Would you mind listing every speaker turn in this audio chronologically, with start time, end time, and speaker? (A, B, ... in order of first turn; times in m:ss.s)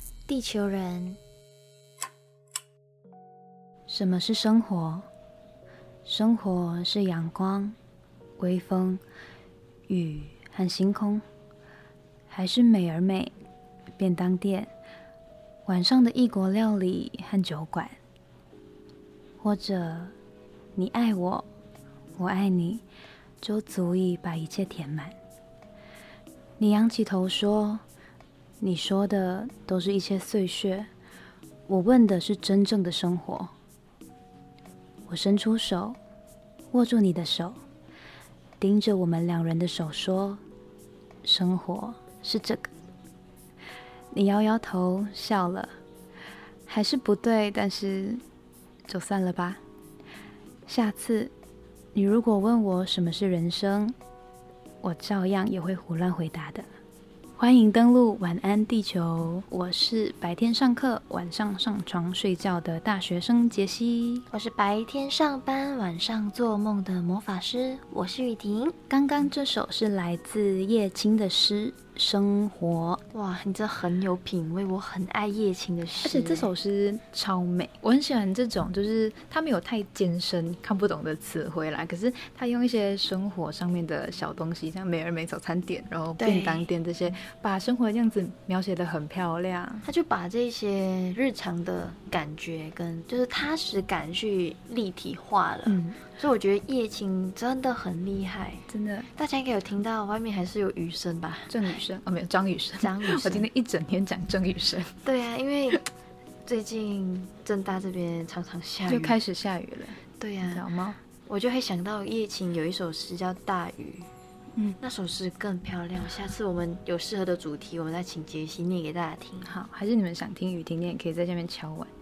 0:00.3-0:01.2 A
0:03.9-0:05.1 B
0:06.0-0:07.8 B
0:08.4-0:09.0 B
0:09.9-0:11.2 B
0:12.3-0:13.3 B
0:14.0-0:14.7 B
0:15.6-0:18.0 B
0:19.4-0:20.1 B
0:20.7-0:21.5 B
0:22.2-0:22.8 B
0:23.4-0:25.2 B
0:26.6-0:27.8 B
0:28.6-0:30.9 B
0:31.7-0:33.5 B
0:35.1-0:36.0 B
0:36.7-0:37.6 B
0:38.6-0:40.4 B
0:41.2-0:42.7 B
0:44.1-0:45.7 B
0:46.7-0:48.2 B
0:48.9-0:49.6 B
0:50.7-0:51.3 B
0:51.9-0:54.0 B
0:54.8-0:56.7 B
0:57.4-1:04.2 B
1:04.3-1:08.7 A
1:08.9-1:13.0 B
1:13.1-1:16.5 A
1:16.0-1:29.8 B
1:26.2-1:26.7 A
1:29.8-1:38.6 A
1:35.6-1:36.0 B
1:38.7-1:39.1 B
1:39.2-1:41.6 A
1:41.5-1:44.9 B
1:42.8-1:43.4 A
1:45.0-1:45.8 A
1:46.4-1:49.2 A
1:48.9-1:51.0 B
1:50.2-1:50.6 A
1:51.2-1:54.1 A
1:54.8-1:59.5 A
1:59.4-2:01.9 B